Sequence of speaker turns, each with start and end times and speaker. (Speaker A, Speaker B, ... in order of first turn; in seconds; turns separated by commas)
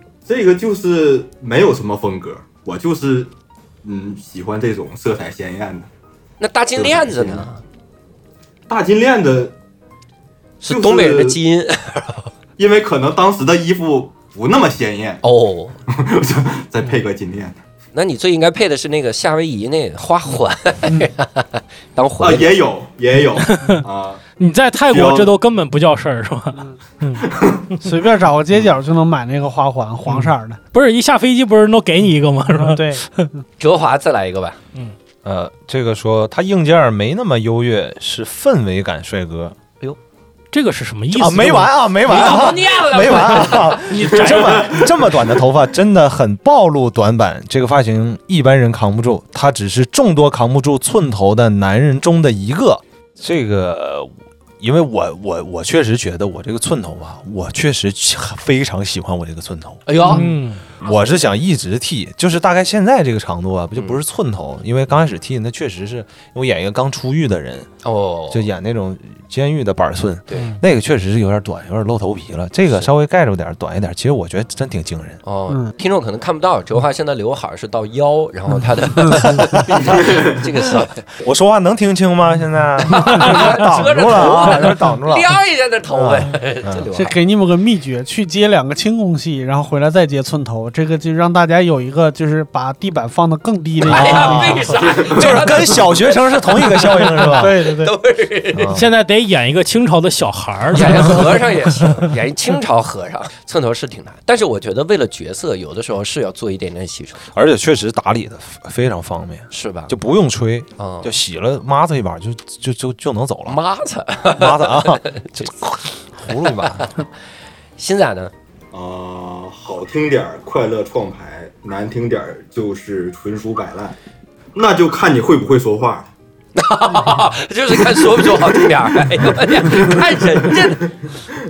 Speaker A: 0.2-3.3, Speaker A: 3.8-5.9, Speaker B: 6.4-7.6, Speaker A: 6.7-7.5, Speaker A: 8.7-9.5, Speaker B: 10.6-12.3, Speaker A: 10.7-11.4, Speaker A: 12.6-15.2, Speaker B: 15.2-15.8, Speaker A: 15.9-17.6, Speaker B: 17.9-22.6, Speaker A: 22.2-24.2, Speaker C: 23.4-23.8, Speaker C: 24.4-27.3, Speaker A: 24.9-25.3, Speaker A: 27.2-27.7, Speaker D: 27.8-30.6, Speaker C: 30.1-33.3, Speaker D: 32.6-33.0, Speaker B: 33.6-34.6, Speaker E: 35.2-39.5, Speaker C: 40.5-42.4, Speaker E: 41.1-59.9, Speaker B: 42.0-43.9, Speaker C: 43.7-44.9, Speaker B: 59.9-60.3, Speaker C: 60.0-60.6, Speaker E: 60.8-67.7, Speaker B: 67.8-68.5, Speaker E: 68.3-75.2, Speaker B: 75.2-81.1, Speaker E: 81.2-85.3, Speaker B: 83.0-87.1, Speaker E: 85.9-86.8, Speaker D: 86.9-94.8, Speaker B: 93.8-98.8, Speaker E: 93.8-97.6, Speaker D: 97.3-97.9, Speaker E: 98.5-98.9, Speaker C: 98.7-102.1, Speaker B: 100.7-107.2, Speaker E: 107.3-113.6, Speaker B: 109.5-109.9, Speaker B: 110.8-111.1, Speaker B: 113.5-115.5, Speaker E: 114.3-116.9, Speaker B: 116.2-117.1, Speaker B: 117.8-118.3, Speaker A: 118.7-123.9, Speaker A: 124.5-126.1, Speaker B: 126.5-130.9, Speaker A: 127.8-130.7